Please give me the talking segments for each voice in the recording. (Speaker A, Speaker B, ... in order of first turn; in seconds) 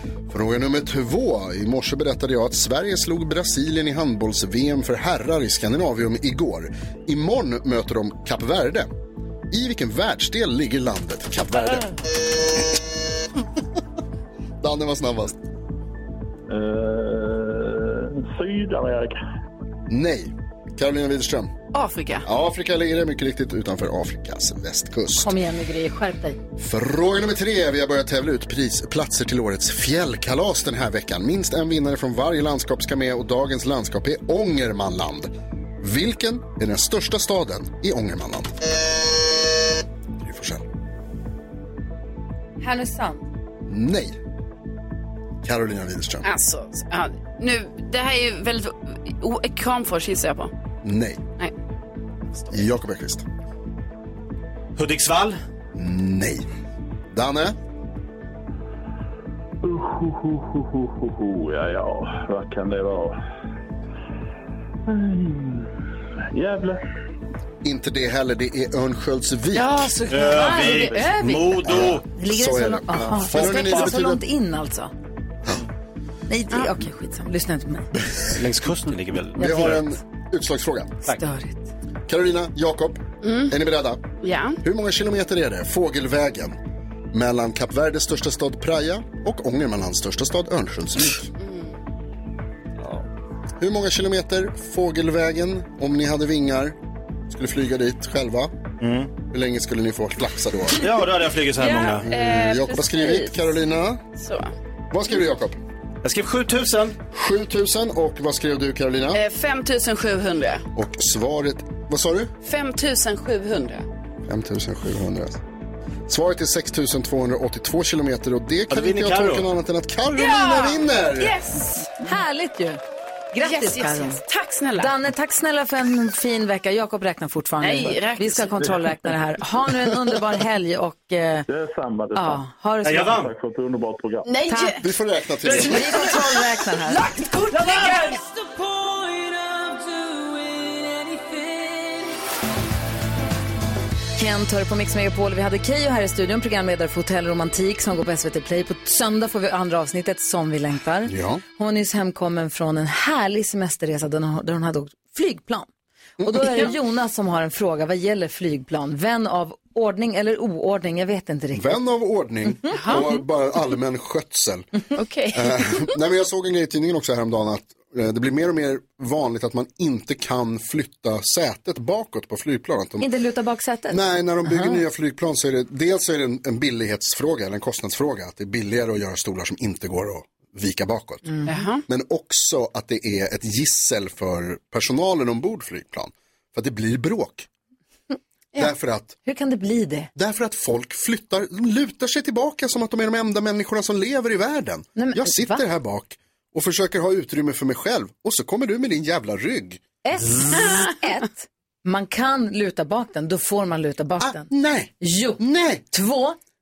Speaker A: 0.3-8.9, 9.5-11.9, 14.6-15.4, 19.9-21.5, 22.2-25.3, 26.6-38.5, 40.2-40.6, 43.7-44.1, 45.4-46.3, 50.8-51.2, 52.5-53.2, 55.8-56.5, 57.1-57.6, 67.6-69.9, 71.6-74.2, 79.3-81.0, 82.1-84.0, 84.6-86.6, 87.1-91.3, 93.6-96.8, 97.3-98.5, 99.3-100.8, 102.1-104.0, 104.9-105.6, 107.1-109.2, 110.8-112.3, 114.3-115.4, 116.1-121.4, 134.8-135.9, 151.1-151.4, 156.2-156.6, 161.5-164.7, 165.3-173.1, 173.9-181.3, 181.9-187.5, 188.6-189.2, 190.1-199.8, 204.2-205.8
Speaker B: 16.5-19.2, 59.6-63.2, 64.9-65.8, 66.3-66.8, 131.5-132.4, 133.1-134.3
Speaker C: 21.7-22.2, 46.2-50.5, 69.5-71.1, 83.2-83.5, 84.2-84.6, 91.4-91.7, 101.6-103.5, 104.2-104.5, 109.1-110.6, 112.4-113.9, 120.2-121.9, 123.4-124.9, 127.6-128.7, 134.2-134.9, 135.5-136.3, 136.8-138.2, 162.7-163.1, 165.0-165.9, 181.5-181.8
Speaker D: 25.2-26.4, 42.6-43.2, 70.1-74.9, 76.3-77.9, 79.4-79.8, 81.1-81.7, 122.0-122.8, 123.3-124.2, 124.8-131.5, 132.1-133.2, 134.5-134.8, 135.5-137.1, 144.2-155.7, 156.2-161.7, 173.0-174.8, 181.3-181.6, 189.2-190.1, 195.0-195.6, 200.0-206.4
Speaker E: 54.8-55.4, 70.1-72.1, 78.3-79.8, 98.8-99.1, 100.8-102.1, 106.0-107.0, 118.7-119.5, 132.8-133.3